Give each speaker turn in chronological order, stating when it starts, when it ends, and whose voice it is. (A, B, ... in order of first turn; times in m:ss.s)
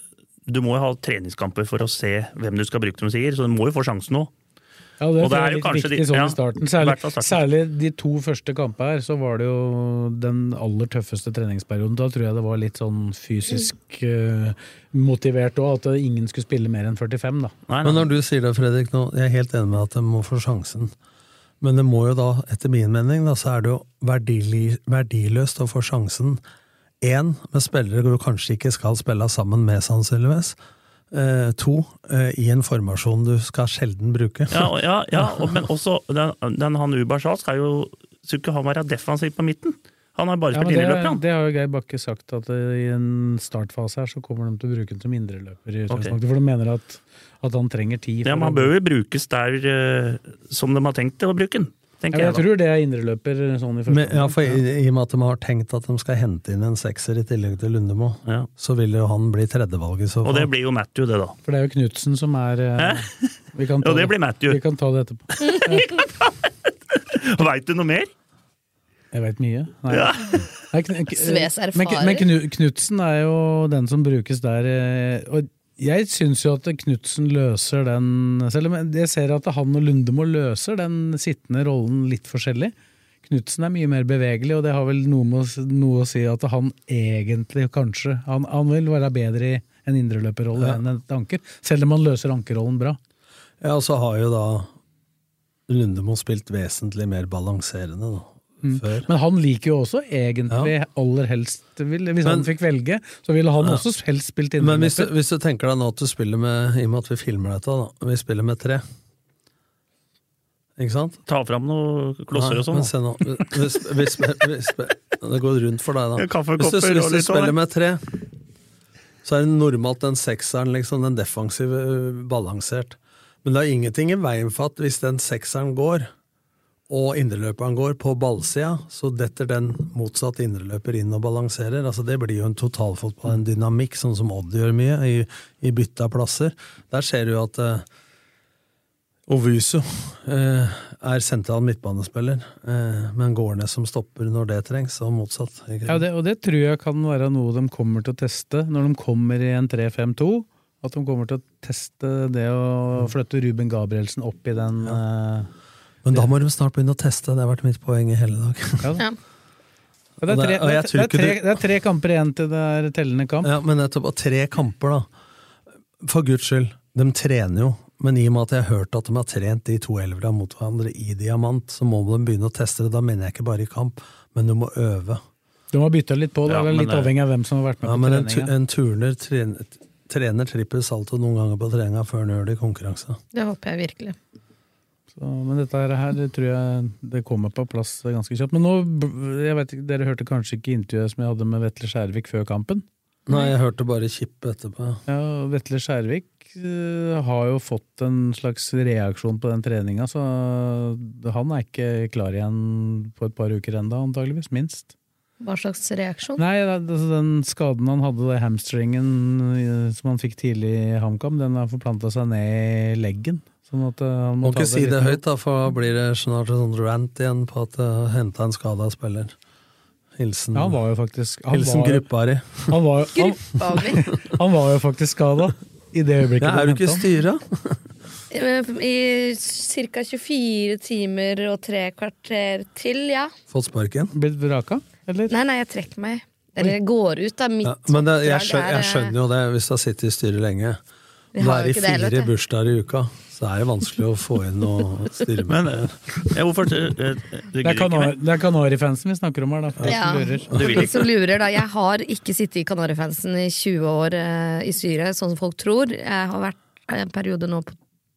0:00.5-0:04.3 A
0:05.0-0:17.5 B
0:05.2-0:07.4 A
0:17.7-0:18.0 A
0:17.8-0:20.9 C
0:21.6-0:26.4 C
0:27.0-0:30.6 C
0:31.1-0:35.5 C
0:34.5-0:41.2 A
0:40.5-0:48.7 B
0:45.9-0:46.1 A
0:48.2-0:52.4 A
0:52.1-0:54.6 B
0:53.9-1:00.5 C
1:00.2-1:01.4 A
1:01.4-1:05.9 B
1:02.8-1:03.1 A
1:03.8-1:04.6 A
1:05.4-1:06.3 A
1:06.9-1:08.1 A
1:09.1-1:22.7 B
1:09.9-1:10.5 A
1:11.2-1:12.3 D
1:23.2-1:33.0 B
1:33.6-1:34.7 C
1:35.7-1:39.1 C
1:38.6-1:45.1 B
1:42.2-1:42.5 C
1:44.6-1:48.8 C
1:50.8-1:51.2 C
1:51.3-1:52.9 A
1:52.3-1:58.0 C
1:56.2-1:57.5 A
1:59.2-2:06.1 C
2:06.9-2:17.8 C
2:19.3-2:26.0 C
2:25.9-2:35.5 B
2:36.0-2:39.0 C
2:40.2-2:43.5 B
2:40.2-2:41.6 C
2:43.4-2:45.1 C
2:46.0-2:55.2 C
2:55.7-2:58.5 B
2:56.5-2:57.1 A
2:57.8-3:03.2 C
3:03.3-3:04.2 D
3:05.1-3:12.8 B
3:13.2-3:15.0 C
3:15.1-3:24.9 B
3:25.4-3:26.4 D
3:26.4-3:35.2 B
3:34.4-3:39.3 C
3:40.2-3:40.8 C
3:40.5-3:42.1 B
3:41.5-3:42.8 C
3:42.7-3:47.0 B
3:43.2-3:44.1 D
3:46.4-3:47.8 C
3:48.3-3:53.3 D
3:53.5-3:54.1 C
3:54.1-3:55.3 B
3:55.3-3:59.1 D
3:57.6-4:00.8 C
4:01.3-4:02.3 D
4:01.4-4:06.0 C
4:05.5-4:08.2 A
4:07.6-4:10.6 B
4:09.8-4:17.8 D
4:10.5-4:10.8 C
4:10.5-4:11.0 A